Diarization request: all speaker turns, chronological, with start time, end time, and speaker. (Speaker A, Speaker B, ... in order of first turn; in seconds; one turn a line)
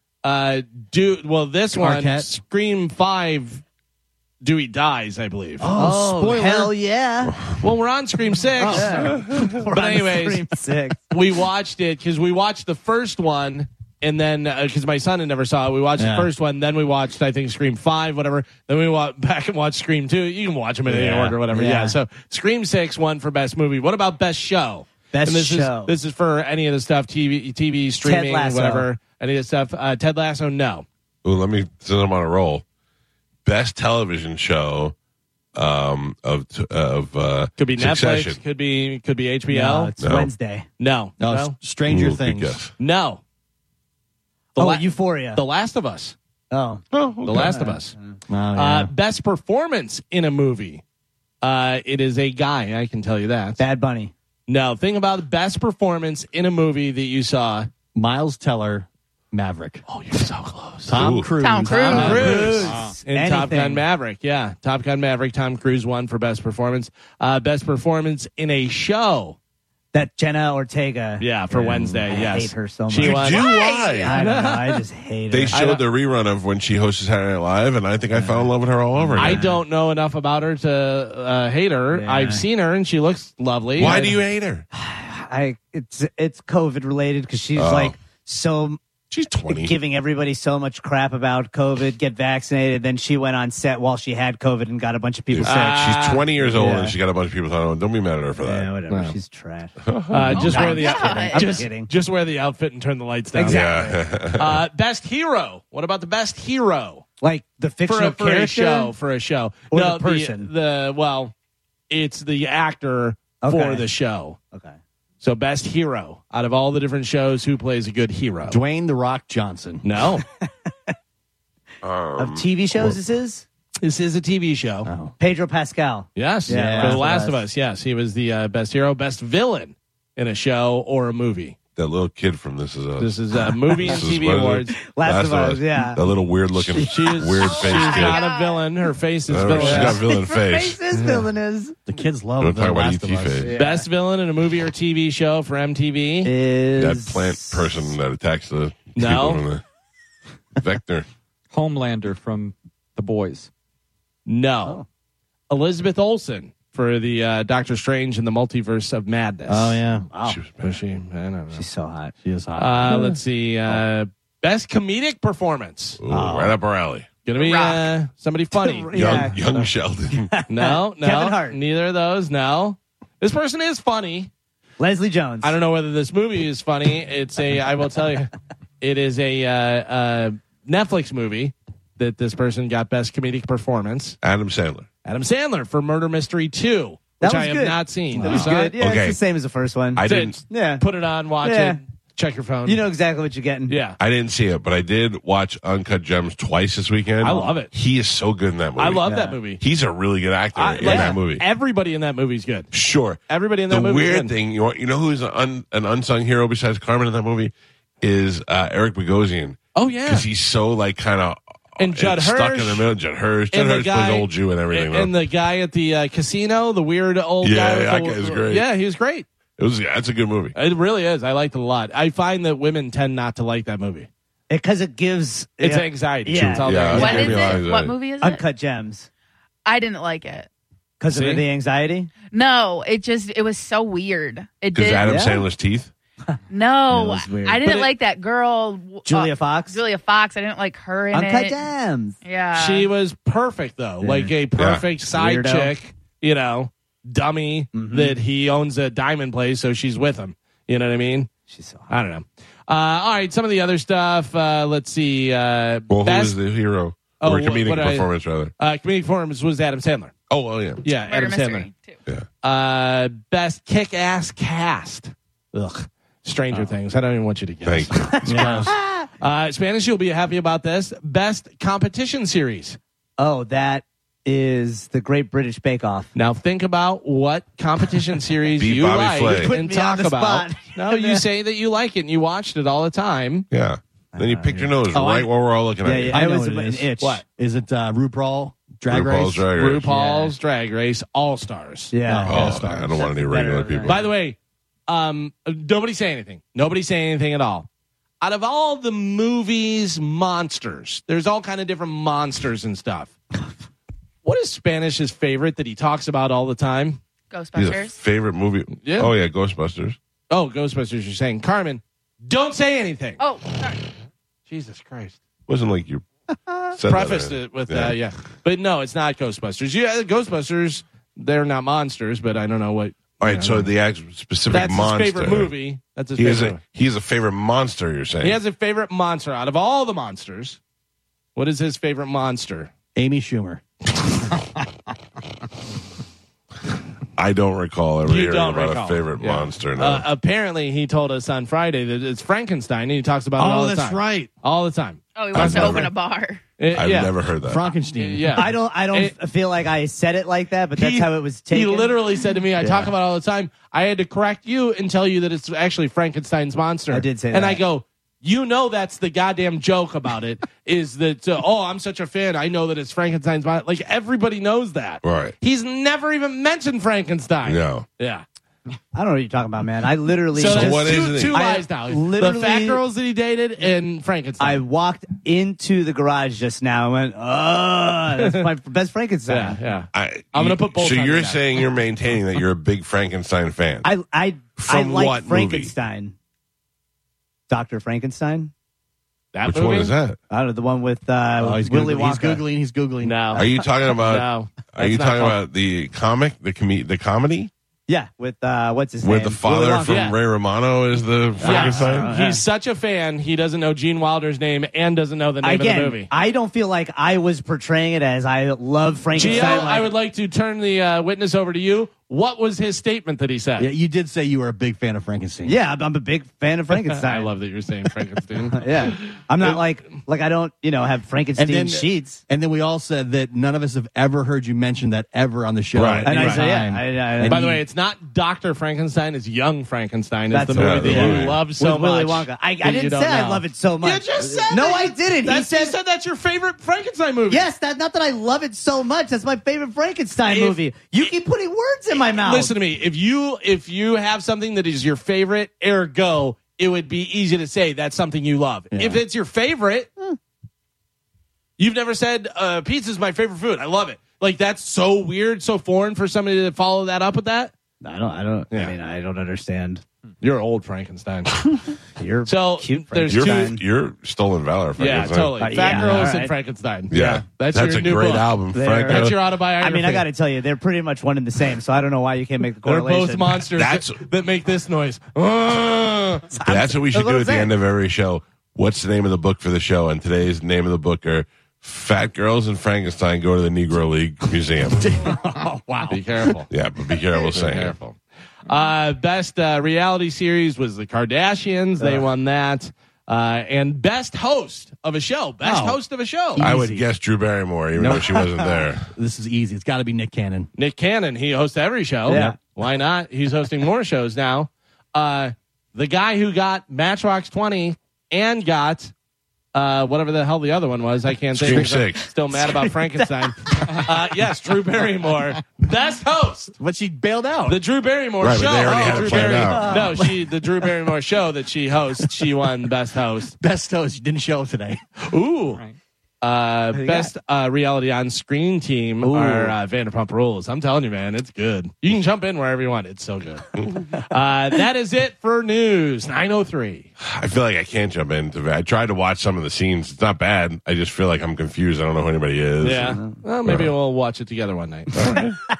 Speaker A: 0.2-3.6
Speaker B: 1.8-2.3
Speaker A: 4.4-5.8
Speaker B: 5.6-6.7
Speaker C: 5.8-7.5
Speaker A: 7.6-10.4
Speaker C: 8.6-11.0
Speaker D: 9.0-9.6
Speaker A: 11.1-30.9
Speaker B: 16.0-16.3
Speaker C: 20.9-22.0
Speaker C: 25.1-25.9
Speaker C: 28.0-28.9
Speaker D: 31.2-32.6
Speaker D: 33.5-35.0
Speaker D: 35.5-38.4
Speaker A: 37.6-39.9
Speaker C: 39.5-40.7
Speaker D: 40.0-40.3
Speaker A: 40.8-41.6
Speaker B: 41.2-42.6
Speaker D: 41.9-42.7
Speaker A: 42.8-43.2
Speaker A: 44.6-46.1
Speaker C: 44.6-45.4
Speaker C: 46.5-47.8
Speaker D: 46.9-47.6
Speaker A: 47.3-48.0
Speaker B: 48.3-48.9
Speaker A: 48.5-50.8
Speaker A: 51.4-53.6
Speaker C: 53.6-54.1
Speaker A: 54.5-57.7
Speaker B: 58.0-59.8
Speaker A: 59.9-61.1
Speaker B: 60.9-62.7
Speaker D: 60.9-61.3
Speaker E: 61.4-62.2
Speaker C: 61.7-63.9
Speaker A: 61.8-69.4
Speaker F: 62.6-63.0
Speaker C: 69.9-73.4
Speaker A: 71.2-73.5
Speaker D: 73.0-74.2
Speaker E: 73.3-74.2
Speaker C: 74.0-75.6
Speaker A: 74.0-74.8
Speaker D: 75.3-79.5
Speaker A: 75.5-75.8
Speaker C: 78.1-78.5
Speaker C: 79.0-79.6
Speaker A: 79.2-84.1
Speaker C: 81.9-82.4
Speaker D: 83.8-84.7
Speaker C: 83.8-84.2
Speaker C: 84.7-88.8
Speaker D: 87.5-88.0
Speaker D: 89.1-89.8
Speaker C: 89.5-97.0
Speaker D: 95.3-98.7
Speaker A: 95.4-96.3
Speaker C: 98.4-99.8
Speaker A: 98.9-99.2
Speaker D: 99.8-100.5
Speaker A: 100.1-103.7
Speaker E: 100.3-101.7
Speaker C: 100.4-101.9
Speaker C: 103.3-104.0
Speaker D: 103.4-104.6
Speaker A: 104.4-107.0
Speaker C: 107.2-108.9
Speaker A: 107.9-111.3
Speaker C: 109.7-110.5
Speaker A: 111.9-114.4
Speaker C: 113.4-113.8
Speaker A: 115.2-118.6
Speaker B: 118.5-119.9
Speaker A: 119.8-120.2
Speaker D: 121.8-123.0
Speaker C: 122.2-123.5
Speaker A: 123.8-124.9
Speaker B: 124.8-125.2
Speaker C: 125.2-127.4
Speaker A: 126.2-131.6
Speaker B: 126.5-127.1
Speaker D: 131.8-138.2
Speaker A: 133.0-134.8
Speaker C: 134.9-136.0
Speaker C: 136.7-137.3
Speaker A: 136.7-140.1
Speaker E: 137.5-138.7
Speaker D: 139.3-140.8
Speaker C: 139.5-141.8
Speaker A: 140.9-141.2
Speaker B: 141.9-143.5
Speaker D: 142.4-143.5
Speaker C: 143.4-143.9
Speaker A: 143.5-146.3
Speaker C: 146.2-147.9
Speaker D: 146.8-149.6
Speaker A: 149.0-149.4
Speaker D: 150.6-151.1
Speaker F: 151.5-153.5
Speaker A: 154.3-154.8
Speaker A: 155.5-159.8
Speaker B: 159.5-160.1
Speaker C: 160.1-160.4
Speaker D: 160.2-160.8
Speaker A: 160.6-161.7
Speaker C: 161.5-162.1
Speaker B: 162.2-163.0
Speaker A: 162.6-166.0
Speaker D: 166.0-167.1
Speaker C: 166.1-166.6
Speaker A: 167.3-169.3
Speaker E: 167.4-167.9
Speaker C: 168.6-171.6
Speaker D: 168.9-170.3
Speaker A: 170.5-174.3
Speaker C: 174.8-175.6
Speaker A: 175.4-184.2
Speaker D: 184.2-184.9
Speaker A: 185.1-188.8
Speaker C: 187.2-190.8
Speaker B: 188.2-188.5
Speaker D: 188.8-189.2
Speaker D: 189.9-190.4
Speaker A: 190.0-192.8
Speaker C: 191.4-191.8
Speaker C: 192.7-193.8
Speaker A: 193.7-194.0
Speaker D: 194.0-199.1
Speaker A: 197.2-197.7
Speaker C: 197.2-197.5
Speaker A: 198.8-199.6
Speaker C: 199.1-199.4
Speaker D: 199.6-201.4
Speaker C: 200.6-201.2
Speaker A: 200.8-202.7
Speaker D: 202.7-215.1
Speaker A: 203.3-204.3
Speaker A: 209.8-210.3
Speaker A: 211.8-212.9
Speaker A: 213.5-219.3
Speaker D: 217.4-218.7
Speaker D: 219.6-220.6
Speaker A: 220.6-224.1
Speaker C: 224.5-227.6
Speaker A: 225.6-227.6
Speaker D: 226.6-227.9
Speaker E: 226.9-228.4
Speaker C: 228.2-229.1
Speaker E: 229.7-230.5
Speaker C: 231.0-232.1
Speaker A: 231.1-231.4
Speaker E: 232.2-235.3
Speaker D: 234.7-235.9
Speaker C: 235.1-235.4
Speaker E: 236.5-241.6
Speaker C: 236.9-237.9
Speaker C: 239.1-239.8
Speaker C: 241.1-242.2
Speaker E: 242.2-242.9
Speaker A: 242.5-251.3
Speaker C: 244.0-244.3
Speaker D: 244.6-244.9
Speaker C: 245.1-245.7
Speaker C: 247.7-248.2
Speaker C: 251.5-251.9
Speaker A: 251.9-256.4
Speaker D: 255.9-258.5
Speaker A: 257.2-260.1
Speaker D: 260.3-260.8
Speaker A: 260.8-261.7
Speaker E: 261.0-262.0
Speaker A: 262.4-268.6
Speaker D: 267.6-268.5
Speaker C: 268.1-269.1
Speaker B: 268.3-268.7
Speaker A: 269.2-272.8
Speaker C: 273.2-276.1
Speaker A: 276.1-283.5
Speaker D: 278.6-279.6
Speaker C: 279.2-281.2
Speaker D: 283.5-286.2
Speaker C: 284.1-285.2
Speaker C: 285.8-287.2
Speaker B: 286.1-289.5
Speaker D: 288.9-289.9
Speaker A: 289.5-291.9
Speaker C: 289.9-290.3
Speaker C: 291.9-294.1
Speaker B: 292.0-293.1
Speaker D: 292.3-294.1
Speaker A: 293.9-297.7
Speaker A: 298.2-303.1
Speaker A: 304.2-307.0
Speaker E: 307.3-308.0
Speaker D: 307.6-310.0
Speaker A: 308.8-309.1
Speaker A: 310.3-313.2
Speaker E: 313.2-313.8
Speaker A: 314.5-315.2
Speaker D: 315.5-316.1
Speaker D: 316.7-318.0
Speaker A: 316.9-323.7
Speaker D: 323.2-325.5
Speaker A: 324.5-326.6
Speaker D: 326.2-328.4
Speaker A: 328.2-330.6
Speaker A: 331.4-332.7
Speaker B: 332.9-333.6
Speaker D: 337.2-340.1
Speaker A: 338.1-345.9
Speaker B: 343.4-344.3
Speaker E: 345.1-346.4
Speaker D: 345.3-345.9
Speaker A: 346.6-347.2
Speaker D: 346.7-347.6
Speaker B: 347.4-348.5
Speaker A: 348.0-349.1
Speaker C: 348.3-352.0
Speaker A: 350.8-368.2
Speaker C: 352.6-352.9
Speaker C: 356.9-357.6
Speaker D: 365.0-365.4
Speaker D: 367.4-367.9
Speaker C: 368.9-372.8
Speaker A: 370.3-374.6
Speaker D: 370.4-371.4
Speaker C: 374.4-379.6
Speaker A: 378.2-378.5
Speaker A: 379.3-381.6
Speaker D: 379.9-383.9
Speaker C: 383.8-386.2
Speaker D: 384.6-385.7
Speaker C: 387.5-388.5
Speaker A: 389.3-389.9
Speaker D: 389.4-390.2
Speaker C: 390.3-392.4
Speaker B: 391.4-393.4
Speaker A: 393.0-395.4
Speaker D: 393.3-397.5
Speaker C: 393.4-393.6
Speaker C: 397.9-400.2
Speaker D: 399.0-402.1
Speaker A: 399.9-400.2
Speaker C: 401.4-402.4
Speaker A: 401.4-406.1
Speaker C: 405.4-409.9
Speaker A: 409.1-413.7
Speaker B: 409.2-409.6
Speaker B: 413.6-415.6
Speaker C: 415.5-417.3
Speaker A: 416.9-419.6
Speaker C: 418.5-422.2
Speaker B: 421.4-427.6
Speaker D: 425.7-426.1
Speaker C: 426.1-427.6
Speaker A: 426.1-426.5
Speaker A: 427.2-437.4
Speaker C: 430.3-435.8
Speaker D: 430.6-431.4
Speaker C: 437.3-442.5
Speaker A: 440.3-441.1
Speaker A: 441.9-449.9
Speaker B: 448.7-449.0
Speaker A: 451.6-457.5
Speaker C: 457.8-459.8
Speaker A: 460.2-461.5
Speaker C: 462.0-463.6
Speaker A: 462.3-463.5
Speaker D: 463.1-465.7
Speaker A: 464.8-470.1
Speaker C: 465.4-466.3
Speaker D: 466.9-469.2
Speaker C: 468.5-473.4
Speaker A: 472.6-476.3
Speaker D: 473.6-474.1
Speaker C: 476.3-477.5
Speaker D: 476.5-484.9
Speaker B: 484.8-486.4
Speaker A: 485.9-486.5
Speaker D: 486.5-487.8
Speaker A: 487.3-496.5
Speaker B: 495.5-495.8
Speaker B: 496.3-496.9
Speaker D: 496.4-498.9
Speaker B: 497.8-498.3
Speaker B: 498.9-500.5
Speaker A: 500.6-508.9
Speaker C: 502.1-502.4
Speaker B: 502.1-502.4
Speaker A: 509.5-516.5
Speaker D: 511.3-512.1
Speaker C: 512.3-513.8
Speaker B: 516.6-517.6
Speaker A: 517.5-523.4
Speaker D: 518.2-520.0
Speaker C: 518.7-520.2
Speaker B: 523.4-524.8
Speaker A: 525.0-525.6
Speaker A: 526.2-536.9
Speaker C: 526.7-527.1
Speaker C: 529.0-529.6
Speaker D: 537.0-543.7
Speaker A: 542.6-545.2
Speaker C: 542.9-543.1
Speaker D: 545.0-545.4